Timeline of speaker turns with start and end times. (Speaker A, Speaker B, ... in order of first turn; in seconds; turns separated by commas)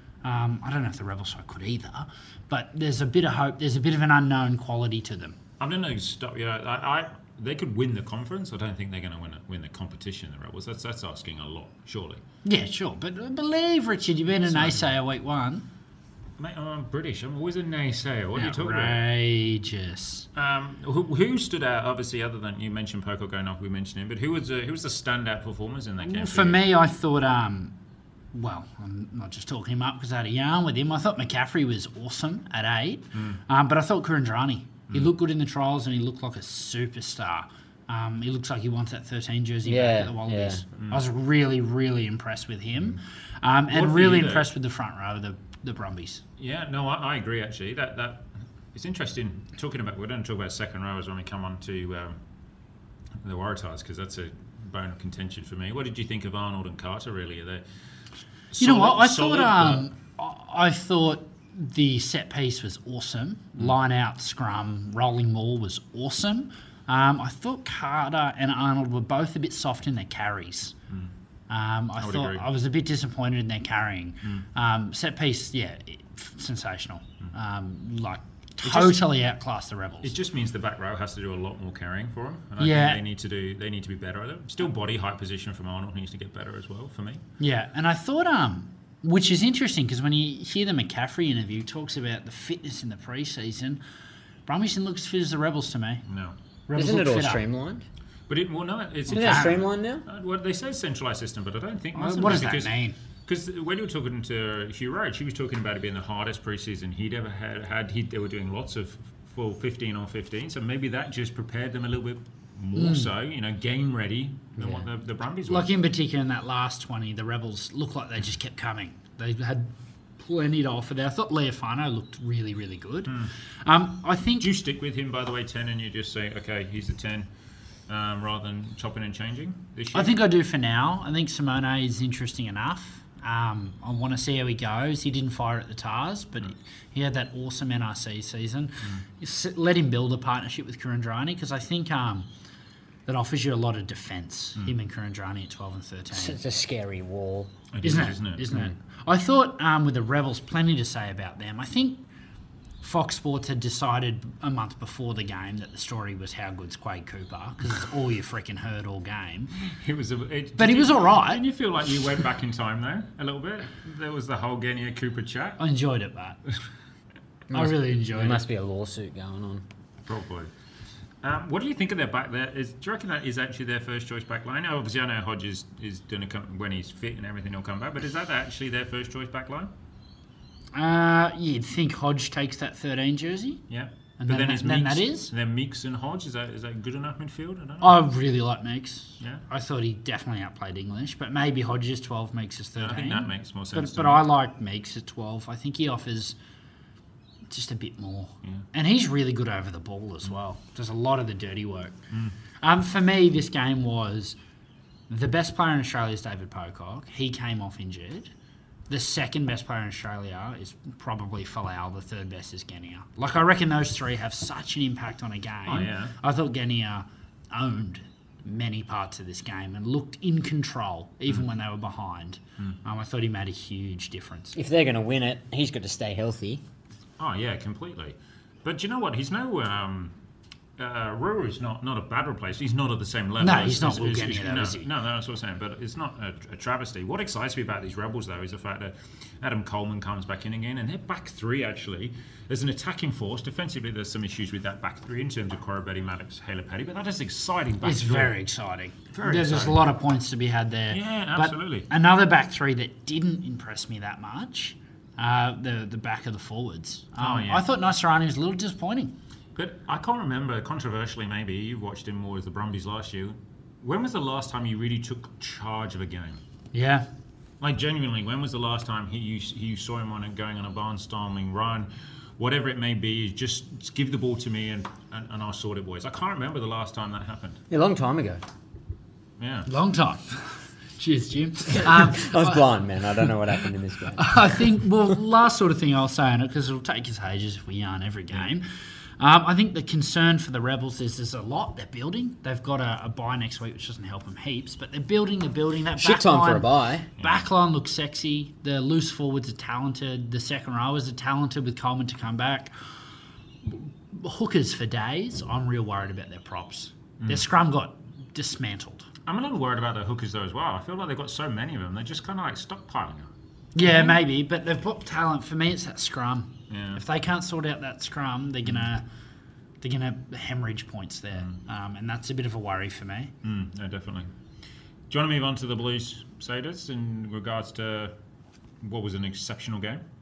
Speaker A: 0.2-5.4, Speaker B: 5.6-12.2, Speaker A: 12.4-15.7, Speaker B: 14.5-14.9, Speaker B: 16.4-19.0, Speaker A: 18.3-20.3, Speaker B: 20.4-26.6, Speaker A: 26.0-27.7, Speaker A: 28.3-46.2, Speaker C: 39.6-40.6, Speaker B: 40.8-41.0, Speaker B: 43.7-44.5, Speaker B: 46.4-52.2, Speaker B: 53.2-57.6, Speaker B: 58.5-59.9, Speaker A: 58.6-70.7, Speaker A: 71.5-80.1, Speaker B: 72.0-72.5, Speaker B: 78.6-79.0, Speaker B: 80.0-87.2, Speaker A: 82.6-83.0, Speaker A: 87.4-93.8, Speaker A: 94.5-96.0, Speaker B: 96.0-96.3, Speaker A: 96.7-97.4, Speaker C: 96.7-97.8, Speaker B: 98.3-115.7, Speaker C: 99.1-100.0, Speaker A: 99.1-99.6, Speaker A: 101.9-103.0, Speaker A: 112.8-113.1, Speaker A: 115.5-124.5, Speaker B: 124.4-127.3, Speaker B: 127.9-130.1, Speaker A: 129.9-142.3, Speaker A: 143.1-146.4, Speaker C: 146.1-147.5, Speaker B: 147.7-148.5, Speaker A: 147.8-152.0, Speaker A: 152.8-159.5, Speaker B: 159.6-165.6, Speaker A: 160.6-161.4, Speaker A: 165.6-166.4, Speaker C: 167.5-169.6, Speaker A: 167.5-168.4, Speaker B: 170.1-170.5, Speaker B: 171.2-179.7, Speaker A: 180.7-183.6, Speaker B: 183.7-188.0, Speaker A: 184.2-185.3, Speaker A: 187.8-196.3, Speaker B: 192.8-194.2, Speaker A: 197.5-201.9, Speaker A: 202.6-204.4, Speaker A: 205.1-208.3, Speaker A: 208.9-224.6, Speaker B: 215.7-216.1, Speaker C: 224.5-226.6, Speaker B: 227.2-230.1, Speaker B: 230.8-248.3, Speaker A: 233.4-234.8, Speaker A: 247.8-259.1, Speaker B: 249.1-249.9, Speaker B: 250.9-251.9, Speaker B: 257.2-257.6, Speaker B: 259.6-266.4, Speaker A: 266.7-267.1, Speaker B: 267.6-277.6, Speaker C: 277.7-278.4, Speaker B: 279.4-279.7, Speaker A: 279.6-282.7, Speaker C: 281.9-284.4, Speaker A: 284.1-288.6, Speaker A: 289.2-302.7, Speaker C: 296.0-297.1, Speaker A: 303.6-309.1, Speaker B: 307.2-307.4, Speaker B: 309.2-314.2, Speaker A: 313.7-319.0, Speaker B: 316.7-317.0, Speaker A: 319.8-323.3, Speaker B: 323.4-324.3, Speaker B: 325.1-328.1, Speaker B: 328.8-330.0